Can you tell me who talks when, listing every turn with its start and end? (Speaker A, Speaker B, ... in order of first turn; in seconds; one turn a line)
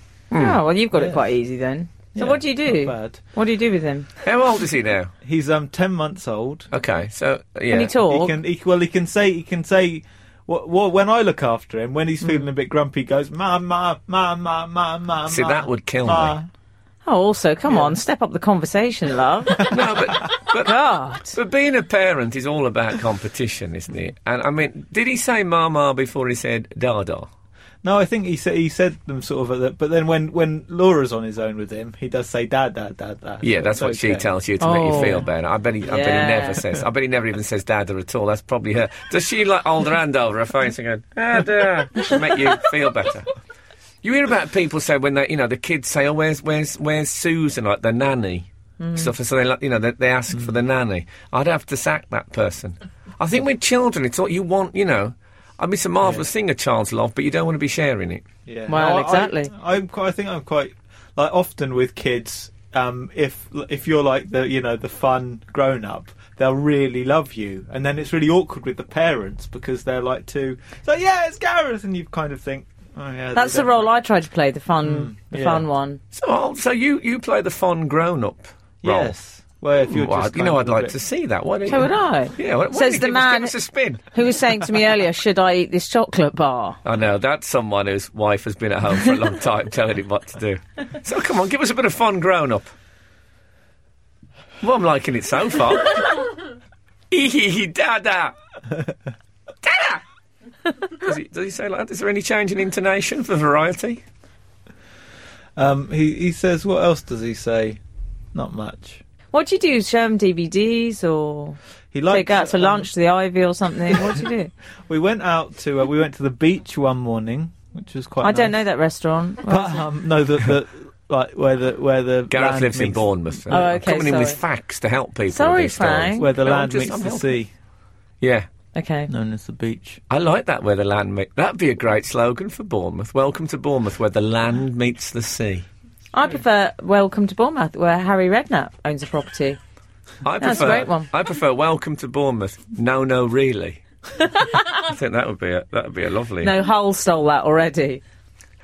Speaker A: 0.3-0.6
Speaker B: 0.3-4.1
Speaker C: 0.9-1.2
Speaker C: 2.1-3.2
Speaker A: 4.2-5.1
Speaker C: 5.2-6.7
Speaker A: 6.7-8.0
Speaker B: 7.7-8.3
Speaker C: 8.0-16.5
Speaker A: 15.3-16.4
Speaker B: 17.0-19.7
Speaker C: 17.7-17.9
Speaker C: 19.6-19.8
Speaker A: 19.6-27.3
Speaker B: 20.6-21.4
Speaker C: 27.8-34.3
Speaker A: 33.4-43.3
Speaker B: 34.6-35.2
Speaker B: 35.9-36.6
Speaker A: 44.0-58.2
Speaker B: 48.8-49.1
Speaker C: 58.5-73.8
Speaker B: 58.7-59.5
Speaker B: 73.3-76.0
Speaker C: 74.8-75.6
Speaker A: 76.1-79.1
Speaker C: 78.8-81.0
Speaker A: 79.8-84.0
Speaker B: 81.7-83.5
Speaker B: 84.1-86.8
Speaker A: 86.8-92.7
Speaker A: 94.6-96.3
Speaker A: 97.1-98.3
Speaker A: 99.6-100.0
Speaker A: 100.8-104.0
Speaker C: 105.5-107.8
Speaker C: 108.3-109.0
Speaker B: 109.3-111.6
Speaker C: 111.9-112.9
Speaker B: 112.1-114.5
Speaker C: 114.9-118.5
Speaker B: 118.2-119.8
Speaker C: 119.5-123.6
Speaker A: 122.3-127.3
Speaker B: 123.5-124.4
Speaker B: 125.3-126.3
Speaker C: 126.2-127.5
Speaker A: 128.2-128.5
Speaker B: 128.7-129.1
Speaker C: 129.1-130.0
Speaker A: 130.1-135.7
Speaker B: 136.1-139.6
Speaker A: 140.2-143.8
Speaker B: 140.4-141.1
Speaker B: 144.2-144.7
Speaker A: 144.5-146.5
Speaker B: 146.4-148.0